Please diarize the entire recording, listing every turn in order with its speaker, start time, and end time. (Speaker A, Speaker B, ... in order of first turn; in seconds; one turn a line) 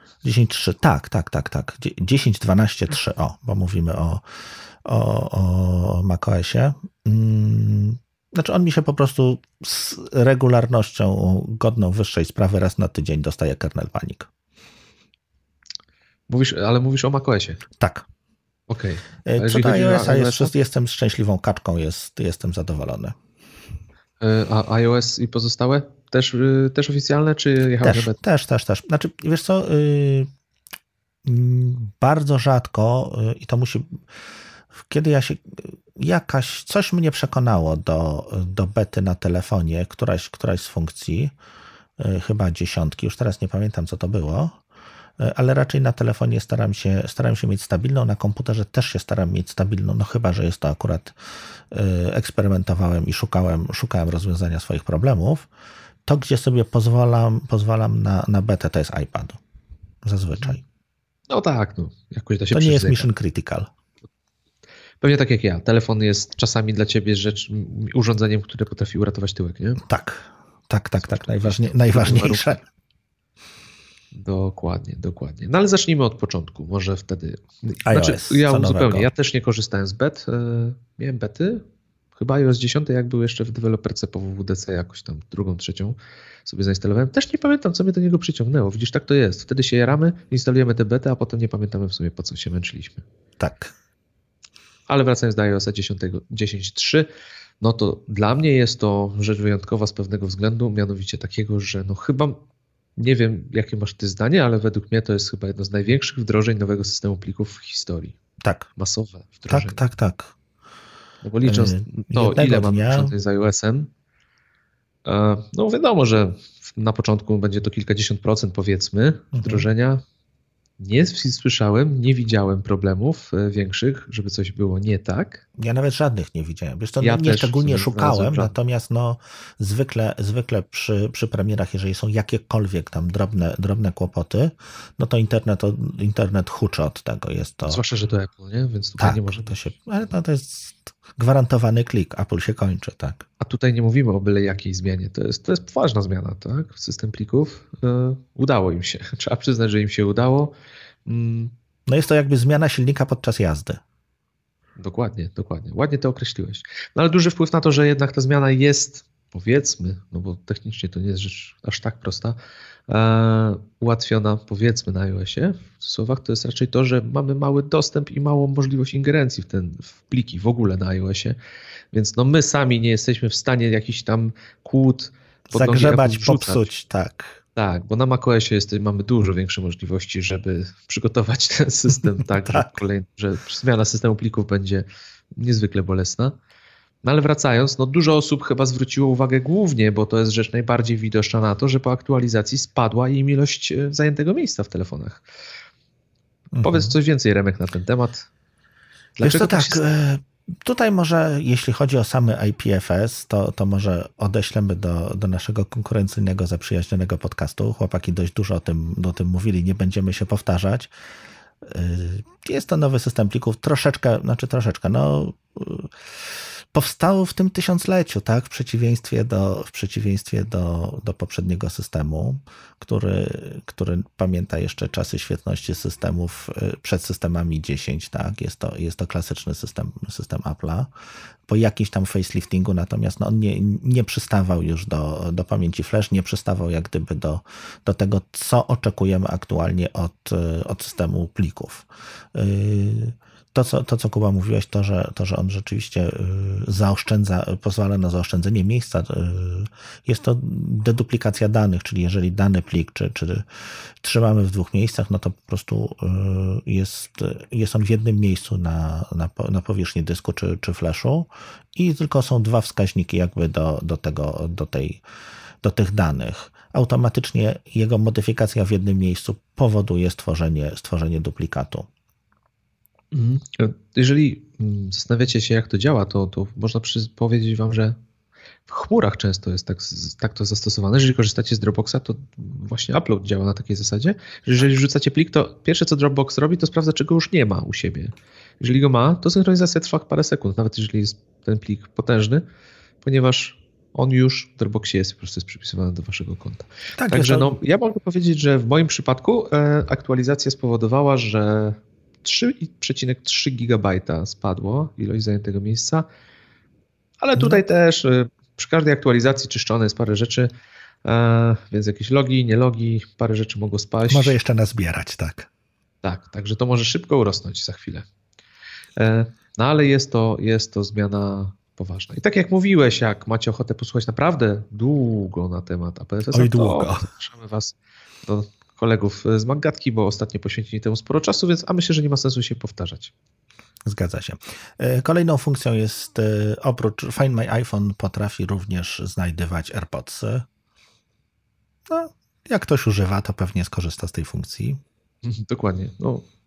Speaker A: 0.2-14.3
Speaker B: 16.3-17.6
Speaker A: 17.8-18.1
Speaker B: 18.7-20.5
Speaker A: 19.2-23.1
Speaker B: 24.2-28.2
Speaker A: 27.8-30.3
Speaker A: 31.2-34.0
Speaker A: 34.8-41.3
Speaker A: 42.0-44.6
Speaker A: 45.2-51.1
Speaker A: 51.7-55.5
Speaker A: 56.0-59.4
Speaker A: 60.0-60.6
Speaker B: 61.3-63.1
Speaker A: 62.5-63.7
Speaker B: 65.0-69.8
Speaker A: 69.8-72.6
Speaker B: 71.0-72.6
Speaker B: 74.1-81.6
Speaker A: 77.8-79.1
Speaker B: 82.2-93.0
Speaker A: 93.4-93.7
Speaker B: 94.9-97.1
Speaker B: 97.6-102.4
Speaker B: 103.0-108.2
Speaker A: 108.4-108.7
Speaker B: 108.8-109.8
Speaker A: 109.5-110.3
Speaker B: 111.2-113.9
Speaker A: 111.4-113.1
Speaker B: 115.0-120.0
Speaker A: 119.3-119.7
Speaker B: 120.8-125.4
Speaker A: 125.6-137.8
Speaker B: 127.0-128.5
Speaker B: 137.7-139.7
Speaker A: 139.0-143.2
Speaker B: 143.4-150.5
Speaker B: 151.1-151.5
Speaker A: 151.9-153.8
Speaker B: 154.8-171.4
Speaker B: 171.9-176.7
Speaker A: 175.5-177.4
Speaker B: 177.6-186.4
Speaker A: 182.2-182.7
Speaker B: 187.0-195.2
Speaker A: 196.5-196.9
Speaker B: 196.6-198.3
Speaker B: 199.2-199.8
Speaker A: 199.2-210.9
Speaker A: 211.6-230.9
Speaker A: 231.5-265.0
Speaker A: 265.6-271.9
Speaker B: 273.1-277.9
Speaker B: 278.7-292.4
Speaker B: 293.0-306.0
Speaker A: 297.0-297.5
Speaker B: 307.2-310.5
Speaker A: 307.4-307.6
Speaker B: 311.0-314.4
Speaker A: 314.1-315.5
Speaker B: 316.0-318.1
Speaker B: 319.0-333.1
Speaker A: 326.3-327.1
Speaker A: 333.8-340.4
Speaker A: 341.9-344.8
Speaker B: 345.2-346.3